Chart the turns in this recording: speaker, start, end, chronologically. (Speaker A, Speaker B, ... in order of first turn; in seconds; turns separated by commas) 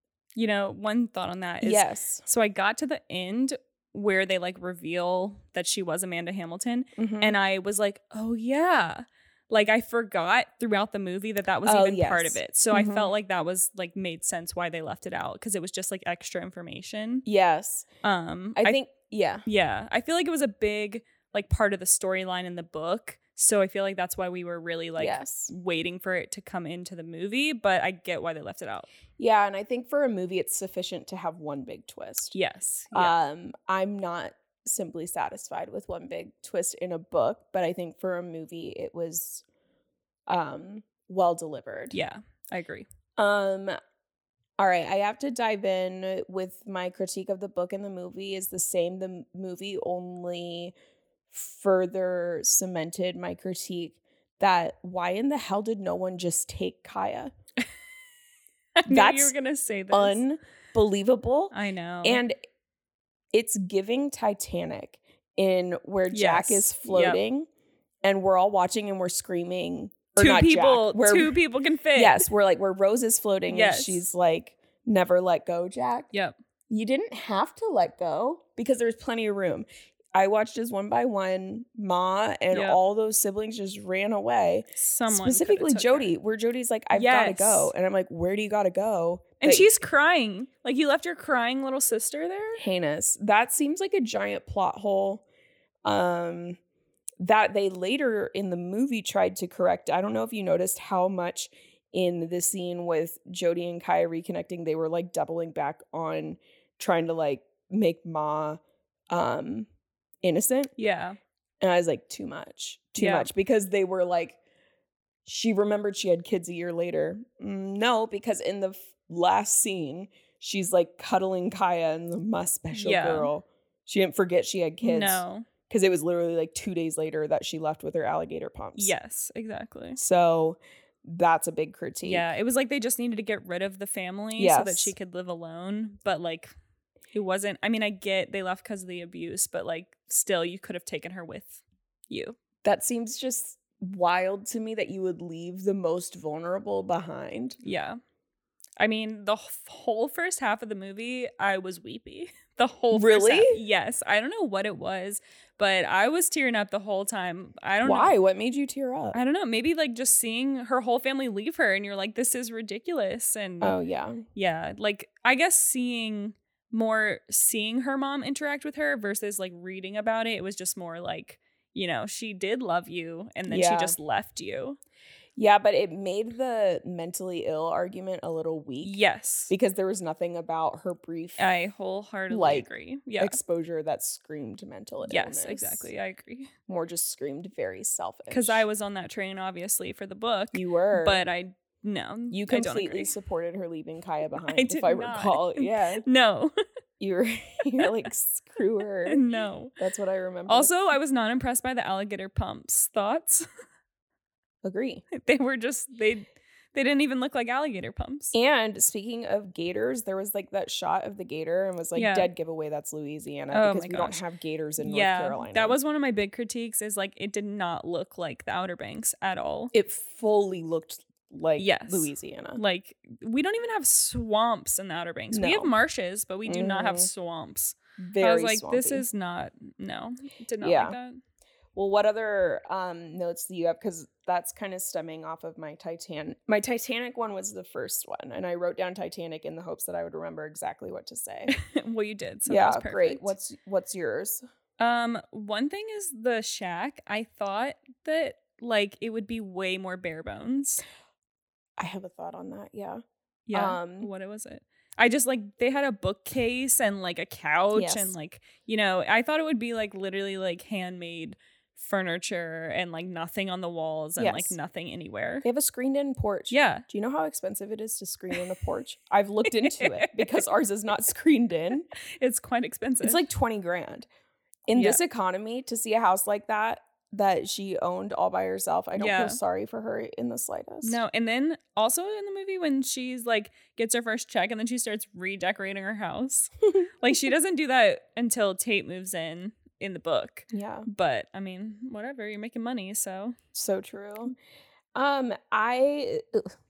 Speaker A: 0.3-17.2, Speaker B: 1.6-2.2, Speaker B: 7.0-7.3, Speaker B: 11.7-13.1, Speaker B: 17.2-17.9, Speaker A: 18.0-18.8, Speaker B: 18.6-19.4, Speaker A: 19.4-28.9, Speaker B: 25.0-25.5, Speaker B: 29.2-32.3, Speaker A: 32.3-33.1, Speaker B: 32.9-39.4, Speaker B: 40.3-42.0, Speaker A: 41.9-42.9, Speaker B: 43.2-43.7, Speaker B: 44.6-50.7, Speaker B: 51.3-57.3, Speaker A: 58.8-60.2, Speaker B: 58.9-59.3, Speaker B: 59.9-62.4, Speaker A: 61.5-62.2, Speaker B: 63.3-67.5, Speaker A: 66.1-67.2, Speaker B: 68.0-71.4, Speaker A: 70.2-72.3, Speaker B: 71.9-76.1, Speaker A: 73.5-74.1, Speaker B: 76.7-89.7, Speaker A: 82.5-82.8, Speaker A: 84.8-86.1, Speaker A: 86.9-87.7, Speaker A: 89.4-92.6, Speaker B: 92.6-95.2, Speaker B: 95.8-96.6, Speaker B: 97.2-109.7, Speaker B: 110.2-110.7, Speaker A: 110.8-111.2, Speaker B: 111.6-114.4, Speaker A: 113.0-113.3, Speaker B: 115.2-128.9, Speaker A: 122.7-123.3, Speaker A: 124.8-125.5, Speaker A: 128.8-130.0, Speaker B: 130.0-132.3, Speaker A: 132.0-136.5, Speaker B: 134.3-134.9, Speaker A: 137.1-142.4, Speaker B: 142.6-147.6, Speaker A: 147.6-148.0, Speaker A: 148.8-158.1, Speaker B: 152.9-153.6, Speaker B: 157.8-159.2, Speaker A: 159.1-163.8, Speaker B: 163.6-164.2, Speaker A: 164.3-174.8, Speaker B: 173.5-173.9, Speaker B: 175.3-179.0, Speaker A: 178.8-179.5, Speaker B: 179.5-181.5, Speaker A: 181.4-183.4, Speaker B: 182.3-182.7, Speaker B: 183.2-185.9, Speaker A: 185.0-186.5, Speaker B: 186.7-188.7, Speaker A: 188.3-193.1, Speaker B: 190.5-191.2, Speaker B: 192.3-196.0, Speaker A: 194.4-196.5, Speaker B: 197.0-199.2, Speaker A: 199.1-199.8, Speaker B: 199.8-200.7, Speaker A: 200.5-203.5, Speaker B: 204.6-205.0, Speaker A: 205.1-208.3, Speaker B: 208.3-215.8, Speaker A: 211.9-212.3, Speaker A: 213.5-214.2, Speaker A: 214.8-219.7, Speaker B: 219.7-222.6, Speaker A: 221.6-231.2, Speaker B: 225.3-225.7, Speaker B: 226.5-227.1, Speaker B: 228.0-229.0, Speaker B: 230.6-230.9, Speaker B: 231.7-241.6, Speaker A: 241.5-243.3, Speaker B: 242.5-244.4, Speaker A: 244.8-250.8, Speaker B: 251.8-253.0, Speaker A: 253.5-265.4, Speaker B: 253.5-254.1, Speaker B: 257.7-258.1, Speaker B: 264.2-264.6, Speaker B: 265.4-271.9, Speaker A: 266.5-266.8, Speaker A: 269.7-270.2, Speaker A: 271.9-273.2, Speaker B: 273.0-274.1, Speaker B: 274.7-281.0, Speaker A: 274.7-275.0, Speaker A: 279.0-279.4, Speaker A: 280.8-293.4, Speaker B: 290.5-290.9, Speaker B: 293.5-294.3, Speaker B: 294.9-296.5